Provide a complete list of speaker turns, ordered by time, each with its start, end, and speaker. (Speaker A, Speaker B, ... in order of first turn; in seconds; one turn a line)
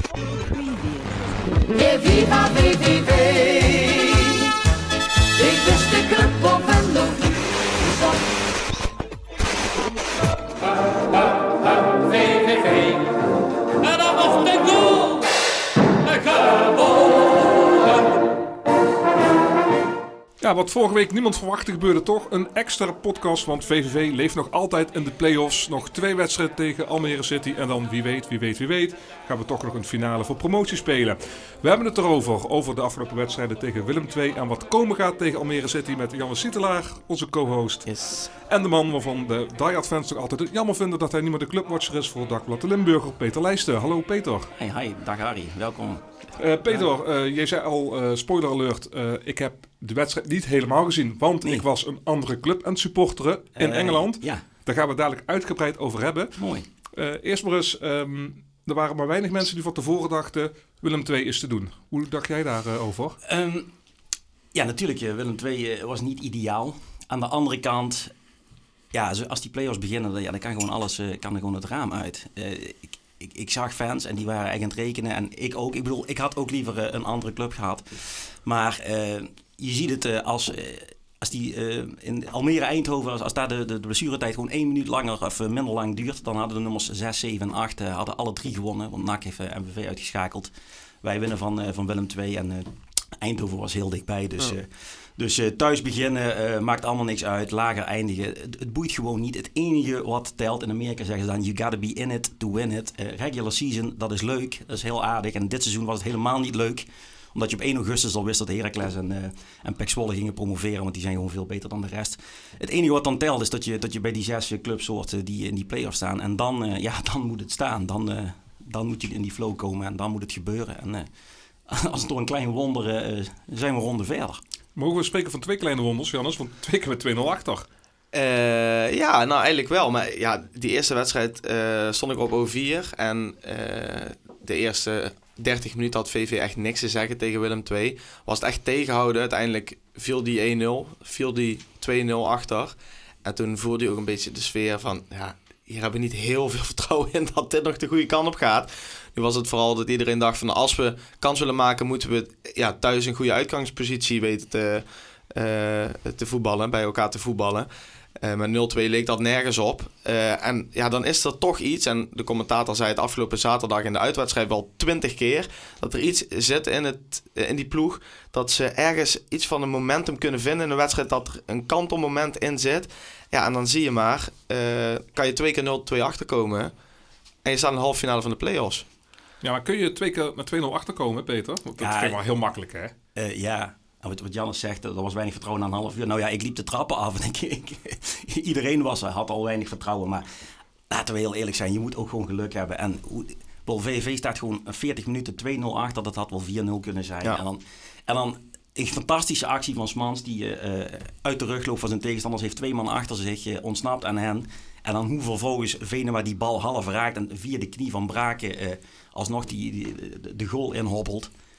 Speaker A: 1.6-4.5
Speaker A: 5.3-8.2
Speaker B: 20.4-44.5
Speaker C: 37.9-38.3
Speaker D: 44.5-46.0
Speaker B: 46.4-56.4
Speaker D: 53.6-54.4
Speaker D: 56.4-56.6
Speaker B: 56.9-63.2
Speaker D: 63.2-63.7
Speaker D: 64.5-68.1
Speaker D: 68.9-90.5
Speaker D: 91.0-121.1
Speaker D: 121.7-124.4
Speaker B: 124.8-127.6
Speaker C: 128.1-176.7
Speaker C: 177.4-178.8
Speaker B: 179.4-182.9
Speaker D: 181.8-182.2
Speaker D: 183.1-211.3